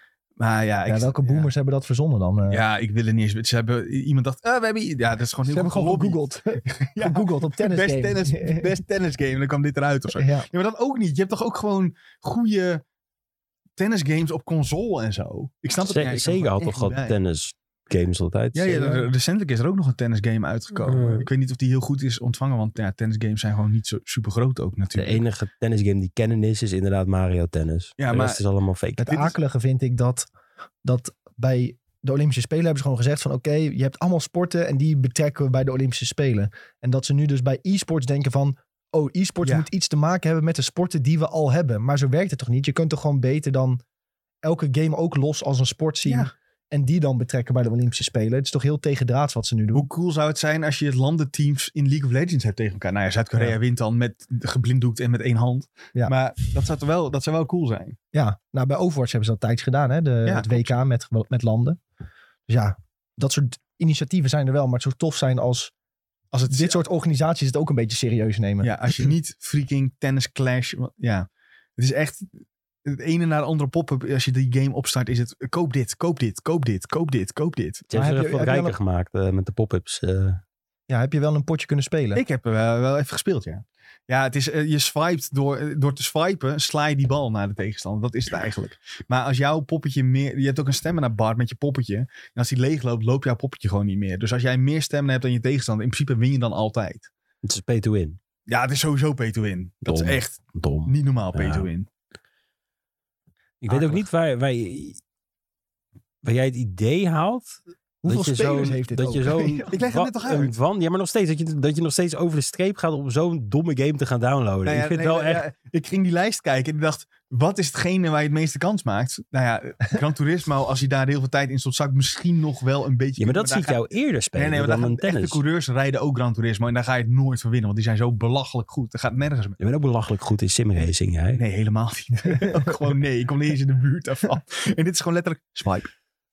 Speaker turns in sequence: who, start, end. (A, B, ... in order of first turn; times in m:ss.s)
0:00.4-0:01.5 A
0:00.9-0:02.6 B
0:02.5-0:12.8 A
0:05.5-0:08.7 B
0:10.2-0:10.5 B
0:13.8-0:17.2 A
0:15.8-0:18.9 C
0:18.5-0:25.2 A
0:18.7-0:19.0 B
0:20.8-0:21.3 C
0:25.0-0:29.1 C
0:28.0-0:28.4 A
0:29.0-0:30.3 B
0:29.1-0:29.3 A
0:30.8-0:43.8 B
0:44.4-0:49.9 B
0:46.0-0:46.3 A
0:49.7-0:58.0 A
0:58.1-1:01.8 B
1:00.3-1:00.7 A
1:02.5-1:05.7 B
1:06.3-1:06.8 A
1:06.5-1:08.7 B
1:08.6-1:12.3 A
1:12.8-1:17.9 A
1:17.9-1:20.4 C
1:17.9-1:18.8 B
1:20.9-1:22.2 B
1:22.2-1:37.1 A
1:37.4-1:38.2 C
1:38.5-1:41.9 A
1:39.8-1:41.7 C
1:43.6-1:45.0 C
1:46.2-1:55.4 C
1:48.0-1:49.7 B
1:49.7-1:50.5 A
1:54.7-2:03.8 A
2:03.2-2:05.4 C
2:04.3-2:09.6 A
2:09.6-2:11.4 C
2:11.4-2:15.9 A